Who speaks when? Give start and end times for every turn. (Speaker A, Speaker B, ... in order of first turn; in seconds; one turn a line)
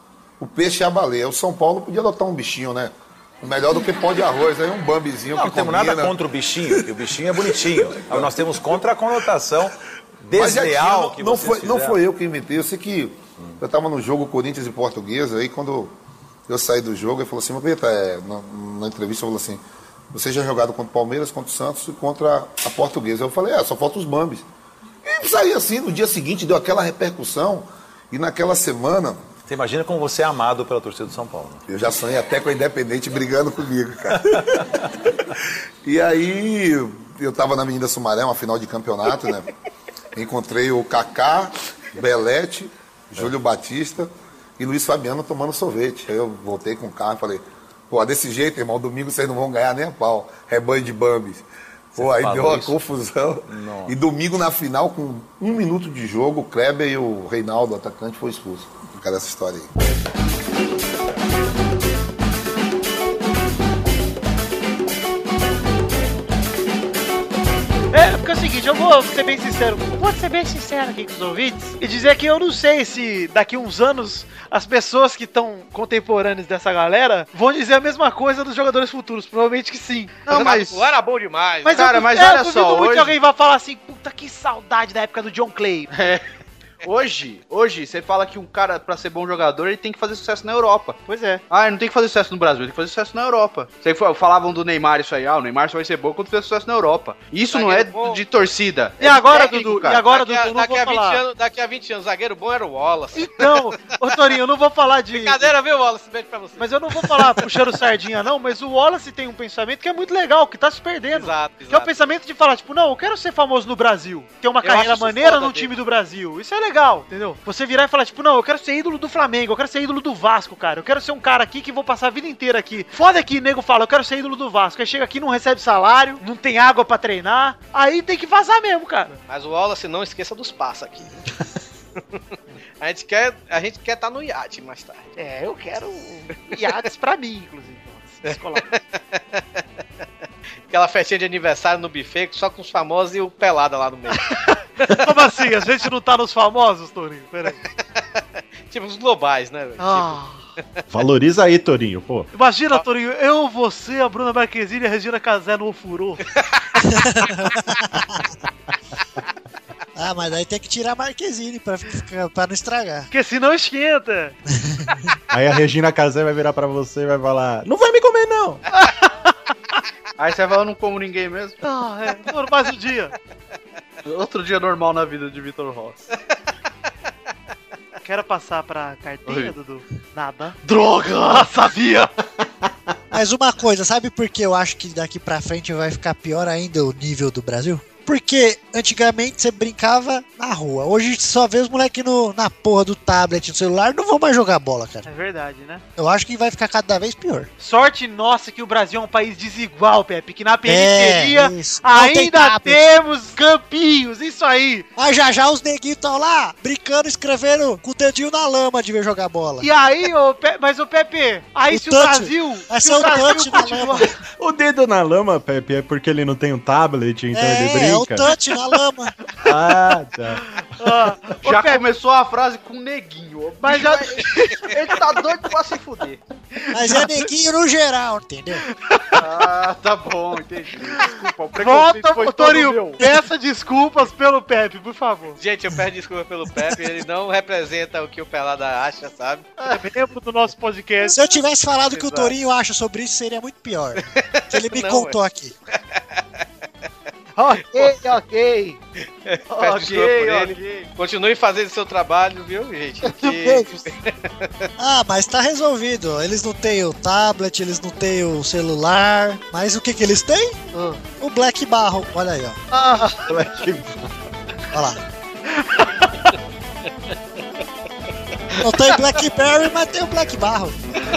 Speaker A: 0.4-6.1
Speaker B: 5.3-12.0
Speaker A: 7.9-8.3
Speaker A: 10.3-15.9
Speaker A: 16.5-19.6
Speaker A: 20.1-24.4
Speaker A: 25.0-29.2
Speaker B: 29.4-31.6
Speaker A: 31.7-34.3
Speaker A: 35.8-39.5
Speaker A: 40.1-59.7
Speaker B: 52.0-52.8
Speaker B: 53.5-54.0
Speaker C: 67.9-80.2
Speaker D: 80.3-80.8
Speaker E: 80.3-81.8
Speaker C: 81.6-85.9
Speaker D: 81.7-83.1
Speaker D: 85.9-86.2
Speaker D: 86.8-91.0
Speaker C: 91.1-91.4
Speaker D: 91.5-100.0
Speaker E: 97.5-98.2
Speaker C: 99.0-101.2
Speaker E: 100.0-103.8
Speaker C: 103.1-105.5
Speaker E: 105.1-107.4
Speaker C: 106.6-129.2
Speaker E: 111.1-112.0
Speaker E: 114.6-115.7
Speaker E: 129.3-131.1
Speaker E: 132.8-135.0
Speaker C: 135.2-138.7
Speaker E: 138.3-139.4
Speaker E: 140.7-144.2
Speaker C: 144.3-147.6
Speaker E: 148.7-150.2
Speaker C: 149.8-150.4
Speaker F: 150.9-152.3
Speaker C: 152.3-156.2
Speaker G: 156.8-158.2
Speaker G: 159.9-163.1
Speaker C: 163.1-164.3
Speaker G: 164.5-165.1
Speaker F: 165.3-168.6
Speaker C: 168.7-169.3
Speaker D: 170.2-171.6
Speaker C: 171.6-173.1
Speaker D: 174.0-176.0
Speaker C: 178.0-182.1
Speaker D: 179.3-179.5
Speaker G: 183.1-195.1
Speaker C: 195.0-195.8
Speaker G: 196.0-197.5
Speaker C: 197.6-204.9
Speaker G: 200.6-203.0
Speaker G: 205.0-209.7
Speaker C: 209.6-214.1
Speaker G: 211.7-214.2
Speaker F: 214.4-218.3
Speaker G: 217.3-219.1
Speaker F: 219.4-220.4
Speaker C: 220.8-221.8
Speaker D: 221.4-226.2
Speaker C: 223.6-224.7
Speaker C: 226.6-227.1
Speaker G: 226.7-228.6
Speaker C: 228.9-229.2
Speaker D: 229.2-233.0
Speaker C: 231.6-235.4
Speaker E: 235.4-239.5
Speaker C: 239.6-241.3
Speaker G: 241.0-245.5
Speaker C: 241.9-242.3
Speaker E: 244.5-245.2
Speaker E: 245.7-246.0
Speaker C: 247.3-248.8
Speaker E: 249.2-254.7
Speaker D: 249.5-250.9
Speaker G: 254.8-260.6
Speaker G: 261.2-262.6
Speaker C: 262.7-263.2
Speaker F: 263.3-264.1
Speaker G: 264.7-265.0
Speaker C: 265.6-266.1
Speaker G: 268.6-270.8